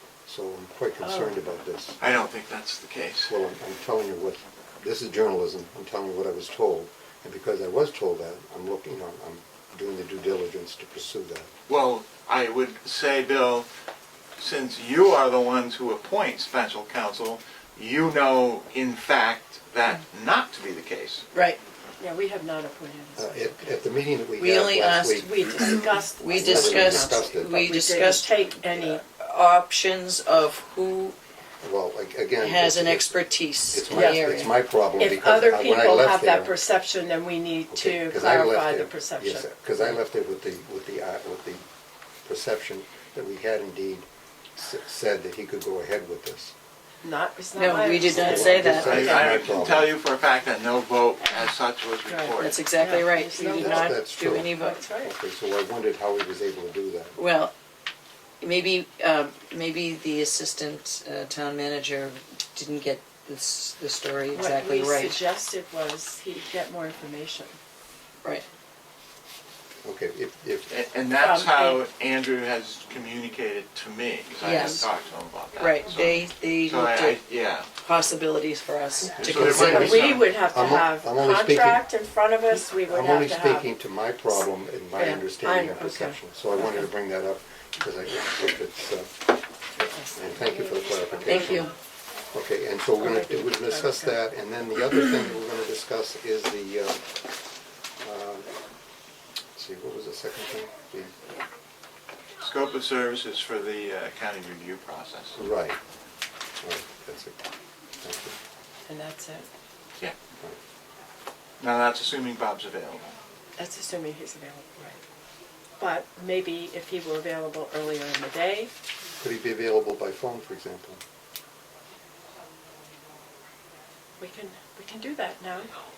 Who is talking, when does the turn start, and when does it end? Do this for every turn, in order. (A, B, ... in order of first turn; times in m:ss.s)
0:00.3-0:02.0 A
0:01.0-0:01.4 B
0:02.0-0:03.4 C
0:03.3-0:11.5 A
0:11.7-0:13.7 C
0:14.4-0:21.2 C
0:21.3-0:21.6 D
0:22.0-0:23.8 B
0:23.2-0:27.7 A
0:24.4-0:31.2 D
0:25.2-0:29.0 B
0:31.6-0:36.6 A
0:32.4-0:34.5 D
0:33.9-0:34.3 B
0:35.0-0:39.9 B
0:37.7-0:41.6 A
0:42.2-0:46.5 A
0:47.0-0:49.5 B
0:47.6-0:48.9 D
0:48.0-0:50.0 A
0:48.6-0:52.6 C
0:52.1-0:55.1 B
0:52.4-0:54.8 D
0:53.6-0:57.2 A
0:57.2-0:57.5 D
0:58.4-1:05.2 D
1:04.3-1:07.6 B
1:09.8-1:10.7 A
1:10.7-1:17.7 C
1:11.2-1:11.8 B
1:14.4-1:14.8 D
1:14.5-1:14.9 B
1:15.6-1:17.2 D
1:17.8-1:20.0 D
1:19.2-1:21.8 A
1:19.2-1:20.3 C
1:19.4-1:23.7 B
1:22.8-1:29.1 A
1:25.0-1:26.9 B
1:29.8-1:31.7 B
1:30.2-1:31.7 A
1:31.3-1:31.7 D
1:32.3-1:37.0 A
1:33.0-1:34.2 B
1:38.0-1:38.5 A
1:39.6-1:41.1 A
1:42.4-1:45.4 C
1:45.4-1:45.8 A
1:46.6-1:47.4 A
1:48.0-1:48.4 A
1:48.9-1:49.5 B
1:51.6-1:53.2 C
1:53.6-1:55.0 B
1:55.8-1:58.7 B
1:59.2-2:01.0 A
2:04.2-2:05.7 B